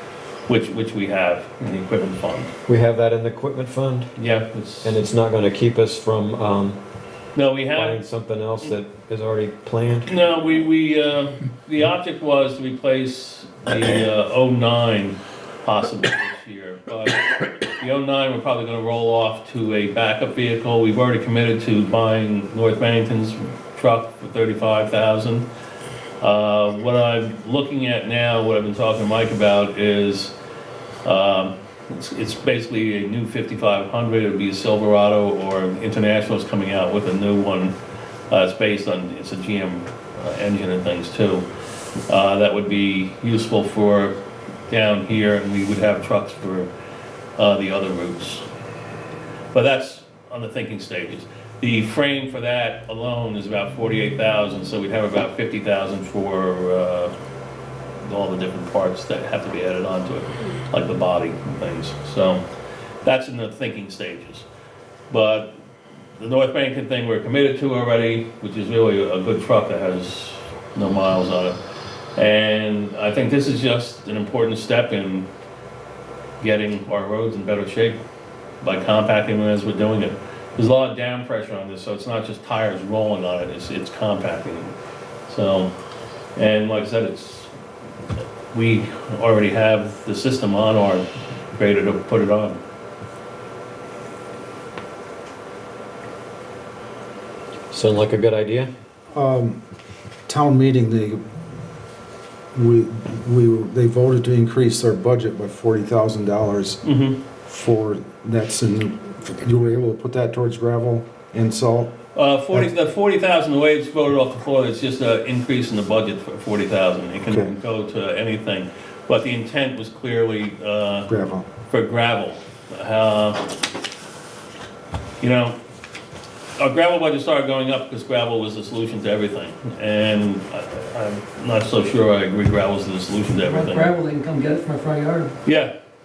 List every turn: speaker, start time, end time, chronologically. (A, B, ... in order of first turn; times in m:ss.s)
0:00.5-0:02.5 A
0:02.7-0:04.1 B
0:04.2-0:05.0 A
0:04.8-0:06.8 B
0:07.3-0:08.0 A
0:07.7-0:10.1 B
0:10.0-0:25.5 A
0:26.2-0:30.3 A
0:31.0-0:37.7 A
0:38.3-0:41.4 A
0:42.1-0:44.2 A
0:44.7-0:46.7 A
0:47.4-0:48.4 A
0:49.5-0:57.1 A
0:58.0-1:02.4 A
1:03.0-1:04.4 A
1:05.1-1:05.5 A
1:06.2-1:11.6 A
1:12.2-1:15.3 A
1:16.4-1:18.0 A
1:18.6-1:24.7 A
1:25.3-1:25.7 A
1:26.4-1:27.5 A
1:28.5-1:32.6 A
1:37.7-1:38.7 B
1:39.1-1:39.6 C
1:40.3-1:41.2 C
1:42.5-1:46.8 C
1:46.8-1:47.2 A
1:47.4-1:51.9 C
1:52.1-2:01.1 A
1:57.3-1:57.5 C
2:01.1-2:01.4 C
2:01.7-2:03.4 A
2:05.2-2:05.6 A
2:06.6-2:13.9 A
2:13.4-2:15.4 D
2:15.4-2:15.7 A